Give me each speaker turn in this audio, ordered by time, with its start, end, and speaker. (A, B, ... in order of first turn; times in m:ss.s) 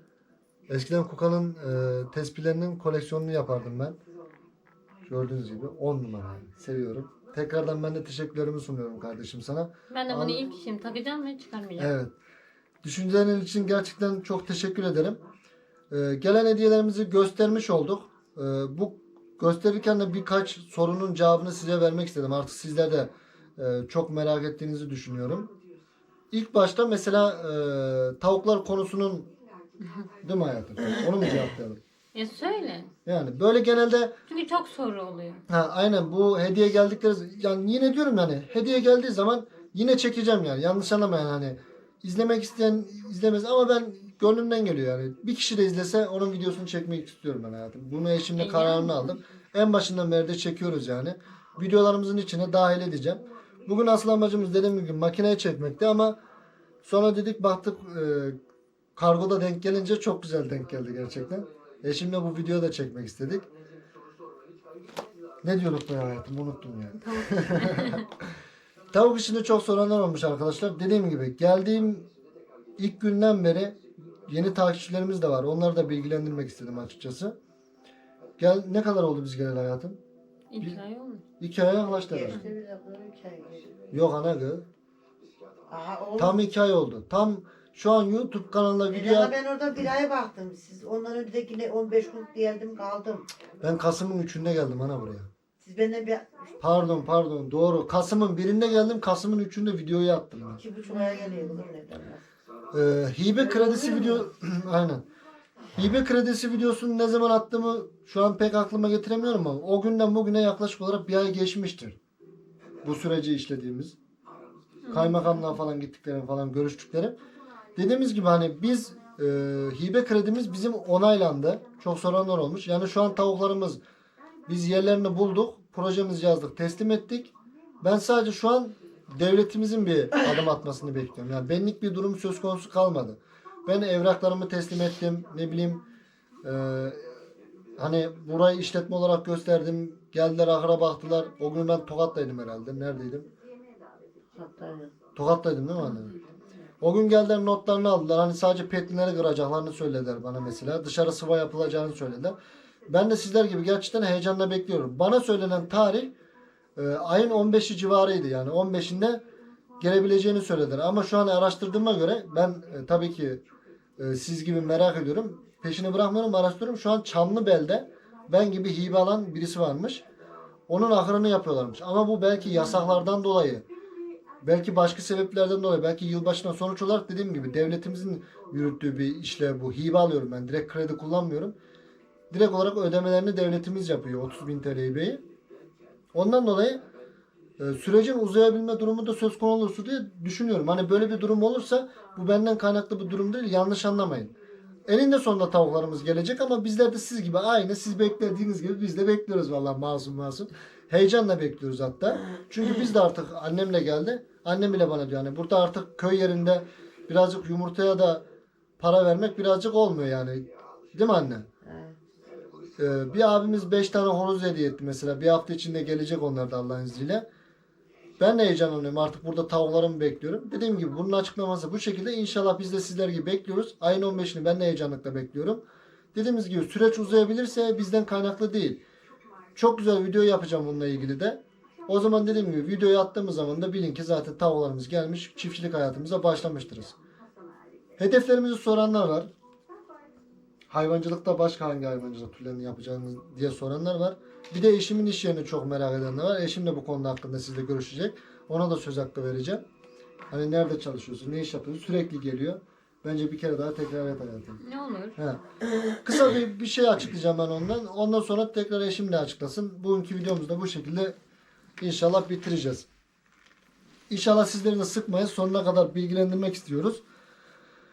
0:00.7-0:04.0 A
0:05.0-0:10.5 A
0:09.9-0:11.9 B
0:11.8-0:12.1 A
0:12.8-0:15.2 A
0:15.9-0:25.5 A
0:26.3-0:29.3 A
0:30.2-0:31.8 A
0:32.1-0:32.9 B
0:33.0-0:34.2 A
0:34.3-0:35.4 B
0:35.5-0:56.2 A
0:48.4-0:49.2 B
0:56.8-0:58.4 A
0:59.0-1:03.5 A
1:05.4-1:08.1 A
1:07.0-1:08.0 B
1:08.9-1:12.1 A
1:12.8-1:17.4 A
1:18.4-1:20.0 A
1:20.5-1:21.2 B
1:21.4-1:22.4 A
1:21.8-1:23.7 C
1:23.9-1:24.7 A
1:25.7-1:26.4 C
1:26.2-1:29.3 A
1:28.9-1:33.3 C
1:33.6-1:35.3 A
1:35.6-1:36.3 C
1:36.6-1:40.6 A
1:40.6-1:42.2 C
1:40.9-1:41.6 B
1:42.7-1:45.0 A
1:43.4-1:44.3 C
1:45.8-1:52.0 A
1:52.8-1:54.0 A
1:54.8-1:55.5 B
1:54.9-1:57.2 A
1:57.8-2:03.8 A
2:04.5-2:15.8 A
2:16.4-2:17.0 A
2:17.8-2:23.3 A
2:24.3-2:24.9 C
2:25.2-2:26.1 A
2:26.8-2:32.4 A
2:32.9-2:36.1 A
2:36.8-2:39.2 A
2:39.8-2:43.4 A
2:44.0-2:50.0 A
2:50.7-2:53.6 A
2:54.4-3:01.6 A
3:02.3-3:05.2 A
3:06.1-3:06.8 A
3:07.6-3:14.3 A
3:14.9-3:28.2 A
3:28.8-3:31.5 A
3:31.6-3:32.0 C
3:32.8-3:37.2 A
3:38.2-3:45.6 A
3:46.1-3:48.8 A
3:49.5-3:57.0 A
3:58.0-3:59.3 A
4:00.7-4:09.6 A
4:10.3-4:14.6 A
4:14.6-4:15.2 B
4:15.2-4:15.4 A
4:16.0-4:21.1 A
4:21.8-4:22.8 A
4:24.1-4:27.0 A